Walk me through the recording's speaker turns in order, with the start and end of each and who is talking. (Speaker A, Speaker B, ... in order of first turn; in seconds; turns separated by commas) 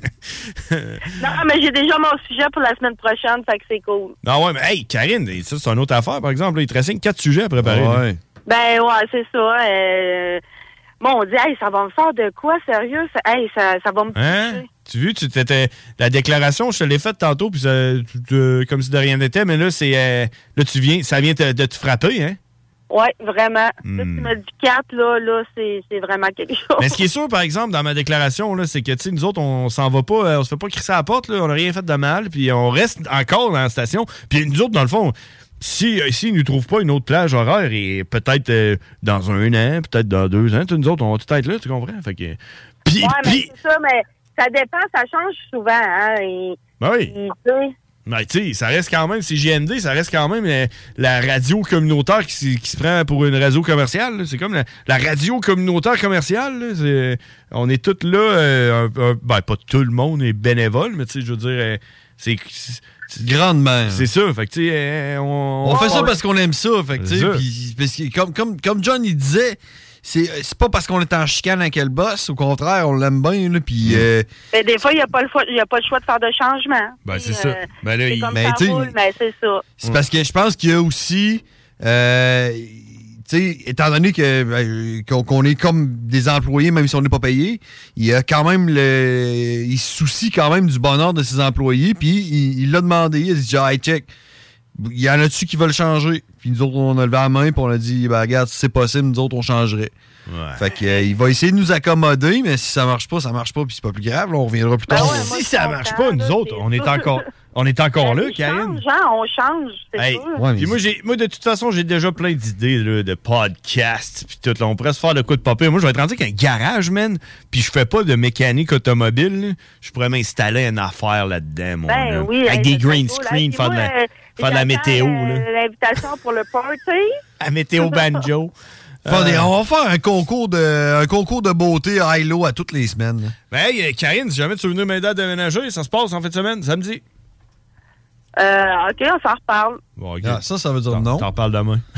Speaker A: 0.7-1.2, Speaker B: 1.2-4.1, Speaker A: 4.2-8.0, Speaker C: 7.6-8.2, Speaker B: 8.5-10.4, Speaker B: 11.0-14.7, Speaker A: 14.1-22.4, Speaker B: 22.9-26.9, Speaker A: 23.8-24.3, Speaker A: 26.8-43.5, Speaker B: 43.0-47.7, Speaker A: 46.8-47.1, Speaker A: 48.0-63.3, Speaker C: 63.2-64.0, Speaker A: 63.9-66.1, Speaker C: 65.6-74.3, Speaker B: 65.7-66.1, Speaker A: 67.0-67.4, Speaker B: 74.5-79.7, Speaker A: 77.0-78.4, Speaker C: 78.3-78.9, Speaker C: 79.8-94.1, Speaker C: 94.8-99.9, Speaker A: 100.3-100.7, Speaker C: 100.6-105.3, Speaker B: 104.9-107.2, Speaker A: 104.9-108.8, Speaker B: 108.0-110.4, Speaker A: 110.0-125.5, Speaker C: 110.3-110.8, Speaker B: 121.9-127.2, Speaker A: 127.4-128.5, Speaker A: 129.0-129.5, Speaker C: 129.1-133.3, Speaker A: 133.5-137.0, Speaker B: 138.4-139.8, Speaker A: 140.0-141.8, Speaker C: 140.2-141.2